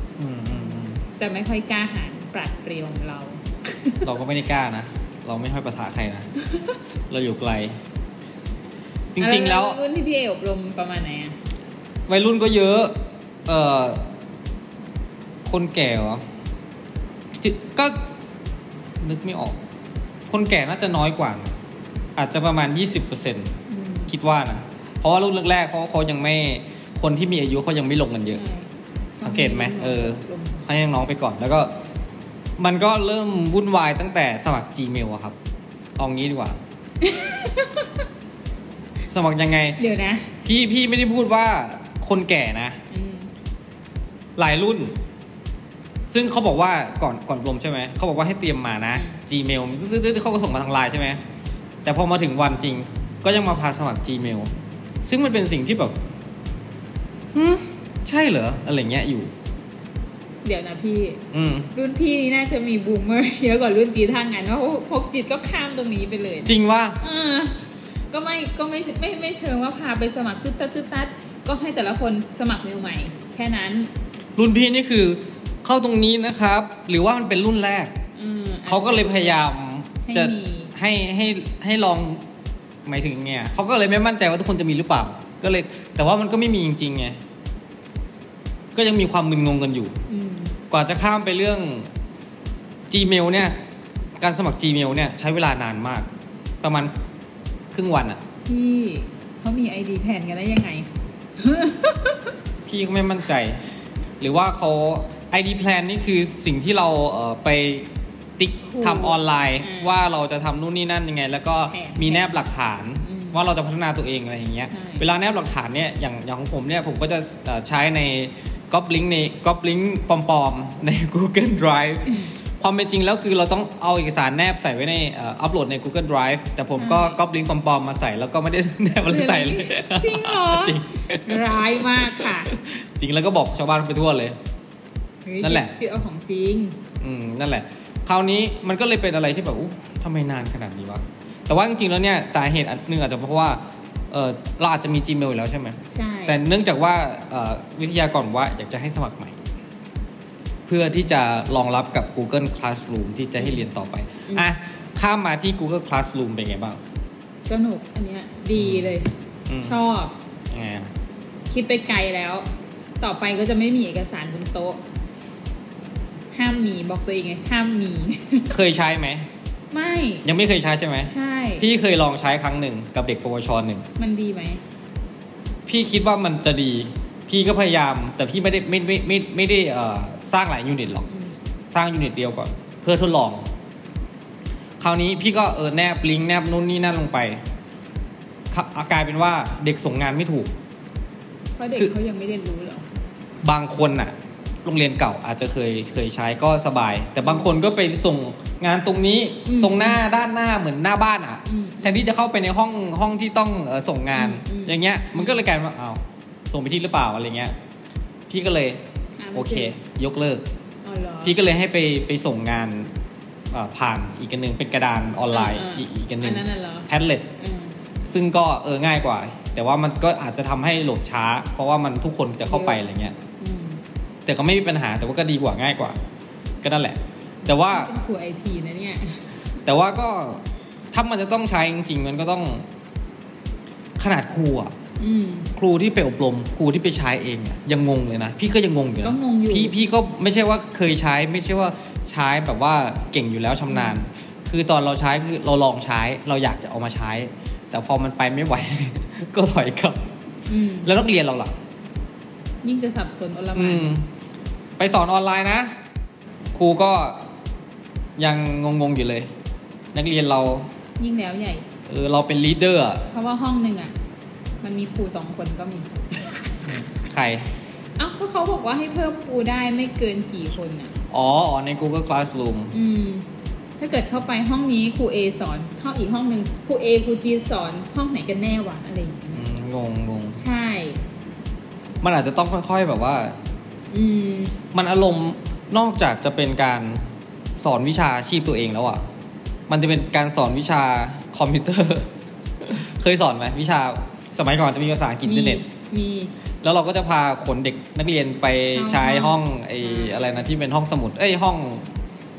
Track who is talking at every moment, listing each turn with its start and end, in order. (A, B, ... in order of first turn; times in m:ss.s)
0:00.2-0:01.0 A
0:00.6-0:04.1 B
0:04.0-0:06.3 A
0:07.1-0:07.8 A
0:09.1-0:09.8 A
0:09.2-0:11.3 B
0:12.1-0:14.0 A
0:15.4-0:16.2 A
0:17.3-0:18.0 A
0:19.0-0:19.6 A
0:20.3-0:21.6 A
0:22.2-0:23.5 A
0:23.7-0:24.1 B
0:24.1-0:28.4 A
0:28.3-0:28.7 B
0:29.2-0:30.6 B
0:29.2-0:31.7 A
0:32.6-0:35.4 A
0:36.0-0:36.6 A
0:37.0-0:38.0 B
0:39.1-0:39.8 A
0:39.8-0:40.3 B
0:40.4-0:42.8 A
0:42.9-0:43.3 B
0:44.4-0:45.0 A
0:46.1-0:51.2 A
0:48.9-0:49.2 B
0:51.8-0:54.5 A
0:55.0-0:56.0 A
0:57.3-0:59.3 A
1:00.4-1:13.9 B
1:01.3-1:01.7 A
1:06.4-1:07.0 A
1:14.4-1:17.9 A
1:18.1-1:19.4 B
1:18.6-1:22.2 A
1:20.0-1:20.7 B
1:22.8-1:27.2 A
1:28.7-1:30.0 A
1:30.1-1:30.6 B
1:30.7-1:31.9 A
1:32.9-1:33.6 A
1:34.2-1:36.1 A
1:36.6-1:36.9 A
1:37.7-1:38.2 A
1:38.4-1:42.3 B
1:42.7-1:43.6 A
1:44.2-2:14.4 A
1:48.6-1:50.0 B
1:51.7-1:52.4 B
1:53.0-1:53.4 B
1:54.7-1:55.1 B
2:06.8-2:07.2 B
2:09.0-2:12.5 B
2:15.2-2:16.8 B
2:15.4-2:15.7 A
2:17.0-2:29.4 A
2:25.9-2:26.4 B
2:30.7-2:36.8 A
2:37.4-2:39.1 B
2:38.6-2:38.9 A
2:39.5-2:39.8 A
2:39.6-2:40.2 B
2:40.5-2:40.9 A
2:41.5-2:42.5 B
2:43.0-2:44.8 B
2:46.3-2:48.6 B
2:48.5-2:49.3 A
2:49.7-2:50.2 B
2:50.2-2:53.9 A
2:51.1-2:51.7 B
2:54.0-2:54.6 B
2:55.7-3:01.1 A
3:01.1-3:01.3 B
3:01.7-3:03.4 A
3:04.8-3:07.4 A
3:08.5-3:10.5 A
3:11.6-3:12.8 B
3:13.4-3:14.1 A
3:14.6-3:27.5 A
3:17.2-3:17.5 B
3:19.4-3:20.0 B
3:21.4-3:22.1 B
3:24.1-3:25.4 B
3:28.3-3:28.8 A
3:29.2-3:29.7 B
3:29.3-3:30.4 A
3:30.8-3:31.4 B
3:31.2-3:32.9 A
3:33.5-3:37.3 A
3:35.3-3:37.7 B
3:38.1-3:43.2 A
3:42.5-3:42.8 B
3:43.4-3:43.8 B
3:44.2-3:46.0 A
3:46.6-3:47.9 A
3:47.5-3:49.2 B
3:49.6-3:52.7 A
3:54.0-3:54.7 A
3:55.0-3:55.5 B
3:55.6-4:10.1 A
3:59.0-3:59.7 B
4:03.7-4:04.0 B
4:10.5-4:10.9 B
4:10.8-4:11.5 A
4:12.6-4:13.9 B
4:13.5-4:14.0 A
4:14.8-4:15.7 A
4:16.5-4:17.2 A
4:18.2-4:19.3 A
4:19.9-4:20.7 A
4:21.0-4:21.6 B
4:21.9-4:23.1 A
4:23.1-4:23.9 B
4:24.6-4:26.6 B
4:26.7-4:27.5 A
4:28.0-4:30.9 B
4:31.1-4:32.7 A
4:32.7-4:33.2 B
4:33.8-4:39.5 B
4:39.3-4:40.4 A
4:40.4-4:41.0 B
4:42.0-4:43.4 A
4:43.9-4:44.6 B
4:44.7-4:47.0 A
4:47.6-4:49.0 A
4:49.7-4:55.6 A
4:55.2-4:56.3 B
4:56.6-5:01.9 A
4:58.7-5:00.5 B